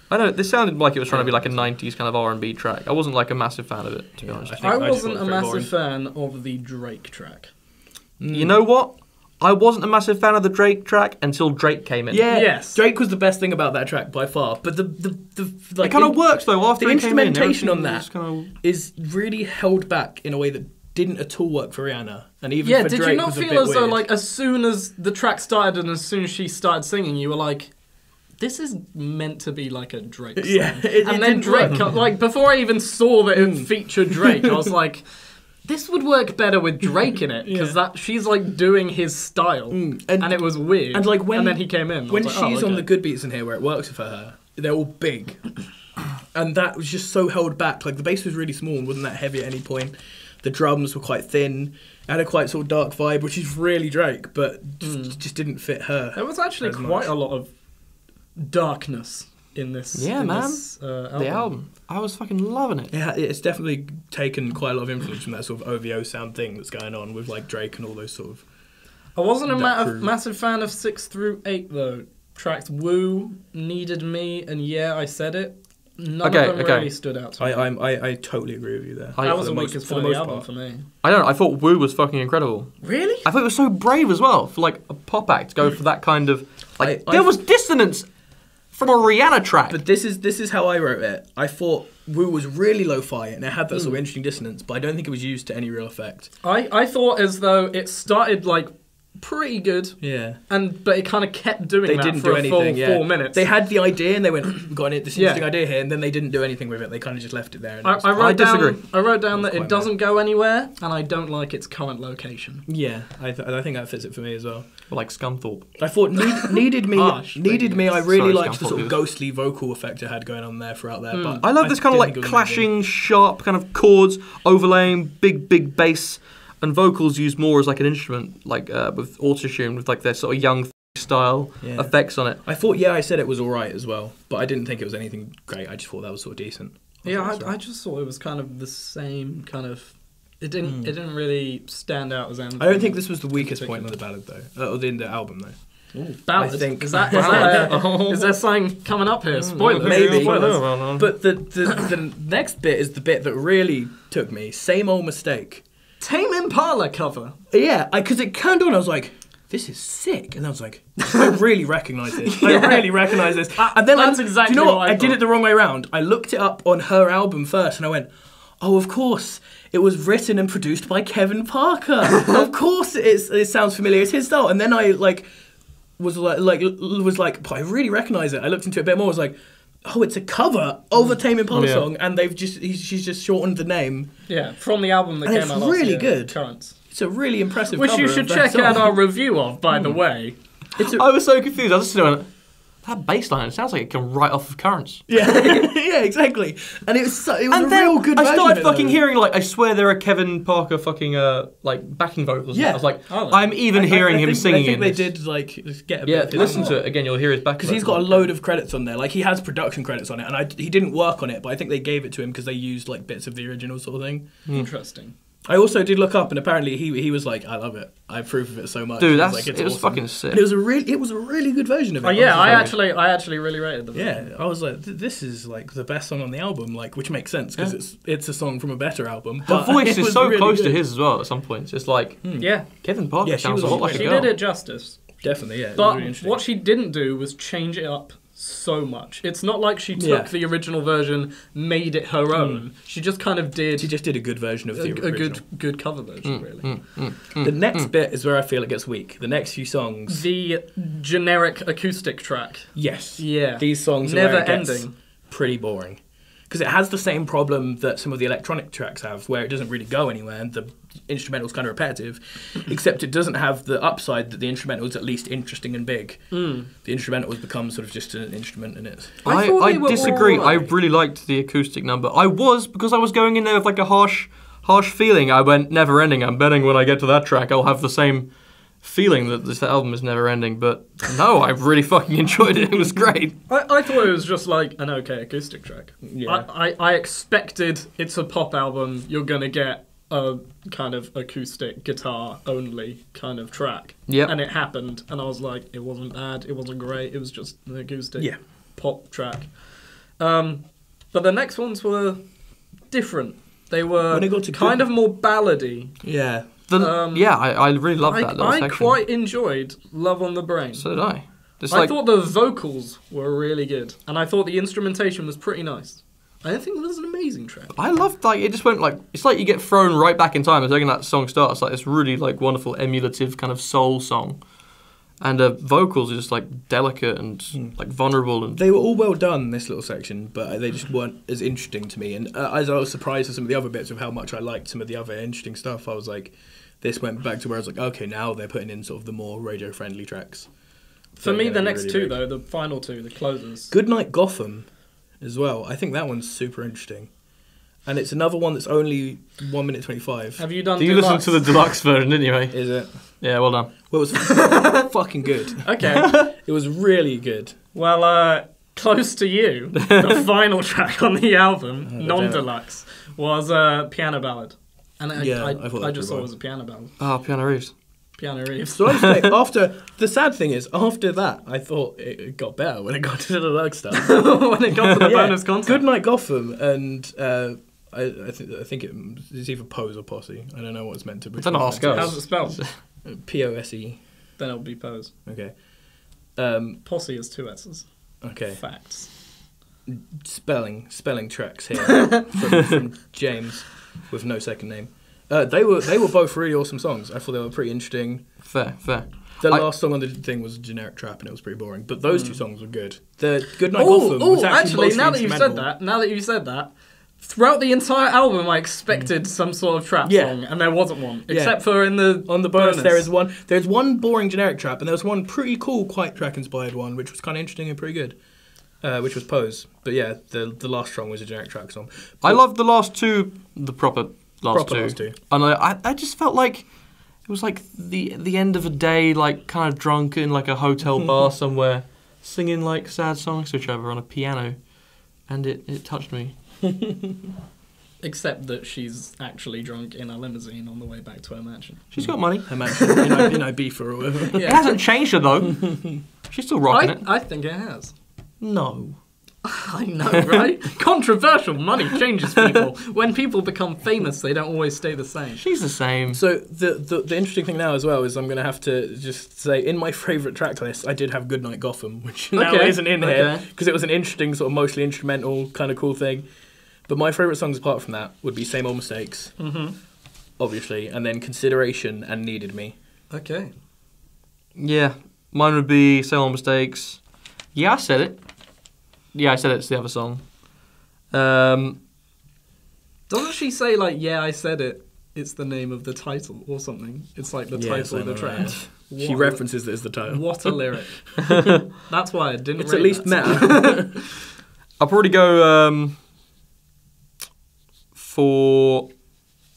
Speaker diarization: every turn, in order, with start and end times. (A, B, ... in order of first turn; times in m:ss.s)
0:00.1-0:04.6 A
0:01.1-0:01.7 B
0:04.2-0:05.7 B
0:04.6-0:07.5 C
0:08.2-0:08.6 B
0:08.3-0:12.3 A
0:12.1-0:24.0 B
0:12.3-0:12.8 C
0:15.8-0:18.5 A
0:22.6-0:42.9 C
0:30.4-0:32.0 B
0:33.3-0:34.5 B
0:37.4-0:37.8 B
0:39.7-0:57.1 B
0:54.8-0:55.2 C
0:56.1-1:01.7 C
0:59.9-1:02.9 A
1:02.9-1:08.5 B
1:09.1-1:17.6 C
1:09.5-1:10.1 B
1:16.2-1:16.9 A
1:17.4-1:20.5 B
1:19.2-1:19.5 A
1:19.2-1:20.9 C
1:21.0-1:28.1 A
1:22.8-1:23.3 C
1:26.8-1:27.4 B
1:28.7-1:29.8 A
1:29.7-1:36.3 B
1:36.4-1:43.5 C
1:40.0-1:40.4 B
1:41.8-1:48.3 B
1:45.1-1:45.4 C
1:47.8-1:52.6 C
1:48.2-1:48.8 A
1:49.2-1:49.9 B
1:52.6-1:54.9 B
1:54.9-1:55.8 A
1:55.8-2:02.7 B
1:56.8-1:58.1 C
1:58.0-1:59.0 A
2:01.1-2:01.4 C
2:01.4-2:12.4 A
2:11.6-2:17.5 B
2:17.0-2:24.0 C
2:20.6-2:20.9 B
2:22.6-2:27.8 B
2:25.9-2:30.7 C
2:27.1-2:28.4 A
2:29.3-2:35.6 B
2:29.7-2:31.1 A
2:36.0-2:37.4 C
2:37.5-2:55.3 B
2:42.2-2:45.2 C
2:56.0-3:04.1 B
3:01.5-3:01.9 A
3:04.3-3:06.8 C
3:05.2-3:09.0 B
3:07.7-3:10.4 C
3:09.7-3:10.0 B
3:10.8-3:11.0 B
3:10.8-3:15.0 A
3:15.1-3:19.0 B
3:17.5-3:25.1 A
3:22.5-3:34.4 B
3:23.1-3:23.5 C
3:26.0-3:28.3 A
3:26.3-3:26.8 C
3:34.5-3:35.1 C
3:35.4-3:42.8 B
3:39.0-3:40.4 A
3:42.0-3:44.3 C
3:42.4-3:42.7 A
3:43.9-3:50.8 B
3:49.4-3:54.3 A
3:52.2-3:54.4 B
3:52.4-4:07.1 C
3:55.2-3:56.4 B
3:59.9-4:00.3 B
4:02.3-4:02.7 B
4:03.8-4:05.4 B
4:06.2-4:07.9 A
4:07.3-4:10.3 B
4:10.1-4:14.9 C
4:12.7-4:30.7 B
4:26.3-4:26.7 C
4:29.2-4:30.6 C
4:29.2-4:43.4 A
4:43.5-5:17.7 C
4:46.0-4:46.5 B
4:54.1-4:54.3 A
5:04.1-5:05.0 B
5:06.0-5:06.6 B
5:06.7-5:09.0 A
5:10.7-5:11.9 A
5:17.7-5:28.6 A
5:27.5-5:27.8 B
5:28.5-5:42.2 B
5:41.2-5:43.7 C
5:43.7-5:47.3 B
5:47.8-5:50.4 B
5:50.4-5:51.8 C
5:50.8-5:53.7 A
5:52.5-5:57.6 B
5:54.4-5:54.8 C
5:55.6-5:56.2 C
5:57.7-6:07.0 C
6:01.8-6:02.5 B
6:05.1-6:06.3 B
6:07.0-6:07.8 A
6:08.1-6:09.1 C
6:08.7-6:22.3 B
6:13.9-6:15.9 C
6:21.4-6:22.8 A
6:21.8-6:22.8 C
6:22.8-6:24.1 B
6:24.4-6:25.1 C
6:25.2-6:26.8 B
6:26.8-6:29.1 C
6:28.2-6:29.2 B
6:29.8-6:38.7 B
6:38.4-6:39.7 A
6:39.4-6:45.7 B
6:42.1-6:42.4 C
6:43.7-6:53.1 C
6:48.9-6:49.1 B
6:50.0-6:58.2 B
6:58.8-7:02.4 B
7:02.2-7:16.3 A
7:04.5-7:05.2 B
7:18.0-7:23.3 C
7:21.9-7:22.6 A
7:22.0-7:24.8 B
7:24.3-7:24.9 C
7:24.4-7:27.0 A
7:26.7-7:27.9 C
7:28.4-7:29.0 A
7:29.4-7:35.4 C
7:35.3-7:36.2 A
7:36.1-7:46.3 B
7:42.3-7:43.4 C
7:46.8-7:49.8 B
7:49.4-7:49.8 C
7:50.4-7:52.8 B
7:53.1-7:53.5 C
7:54.5-8:01.8 A
8:03.1-8:14.0 C
8:07.5-8:11.4 B
8:12.6-8:13.9 B
8:14.8-8:16.0 A
8:17.9-8:18.9 A